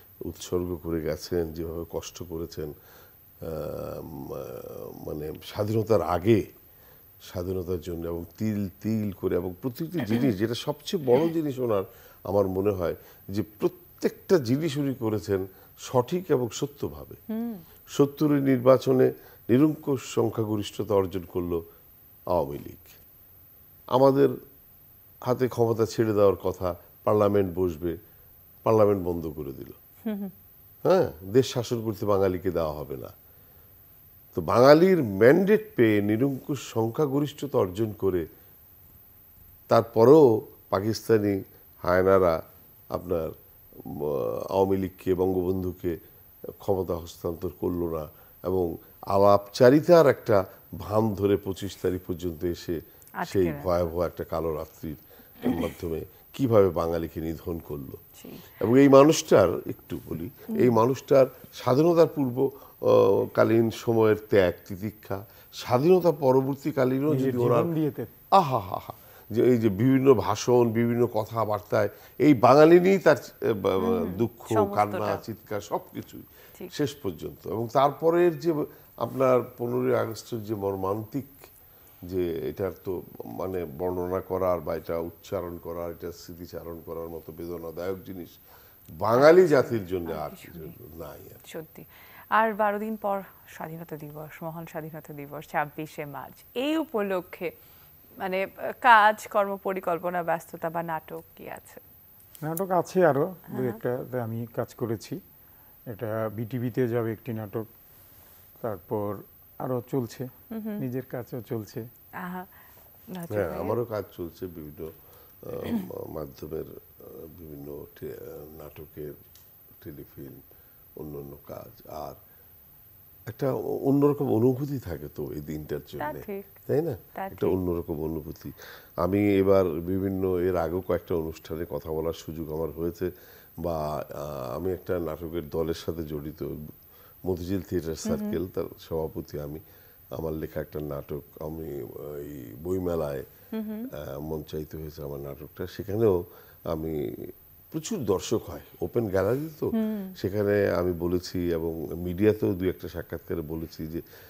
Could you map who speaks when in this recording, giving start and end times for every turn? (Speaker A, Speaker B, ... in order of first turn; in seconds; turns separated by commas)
Speaker A: 0.3-2.7, Speaker A: 3.5-6.4, Speaker A: 7.3-17.2, Speaker B: 17.3-17.6, Speaker A: 17.9-21.6, Speaker A: 22.3-23.0, Speaker A: 23.9-24.3, Speaker A: 25.3-27.9, Speaker A: 28.6-29.8, Speaker B: 30.1-30.3, Speaker A: 30.9-33.1, Speaker A: 34.3-38.2, Speaker A: 39.7-42.3, Speaker A: 42.9-43.3, Speaker A: 43.9-46.0, Speaker A: 46.6-58.0, Speaker B: 53.2-53.7, Speaker B: 58.2-58.5, Speaker A: 58.6-67.7, Speaker C: 67.1-68.1, Speaker A: 68.4-81.4, Speaker B: 73.8-75.2, Speaker A: 82.1-88.3, Speaker A: 89.0-91.4, Speaker B: 89.2-90.7, Speaker B: 91.5-97.5, Speaker B: 98.2-101.8, Speaker C: 102.5-105.2, Speaker B: 103.5-103.8, Speaker C: 105.9-107.6, Speaker C: 108.6-111.8, Speaker B: 110.5-110.8, Speaker B: 112.2-112.5, Speaker B: 113.1-113.8, Speaker A: 113.3-114.9, Speaker A: 115.5-119.1, Speaker A: 119.8-120.4, Speaker A: 121.0-122.2, Speaker A: 123.3-133.1, Speaker B: 126.0-126.5, Speaker B: 127.1-127.5, Speaker A: 133.6-136.5, Speaker A: 137.3-139.6, Speaker B: 138.1-138.4, Speaker A: 140.1-143.2, Speaker B: 143.5-143.9, Speaker A: 144.0-146.2, Speaker A: 146.7-154.0, Speaker B: 149.8-150.1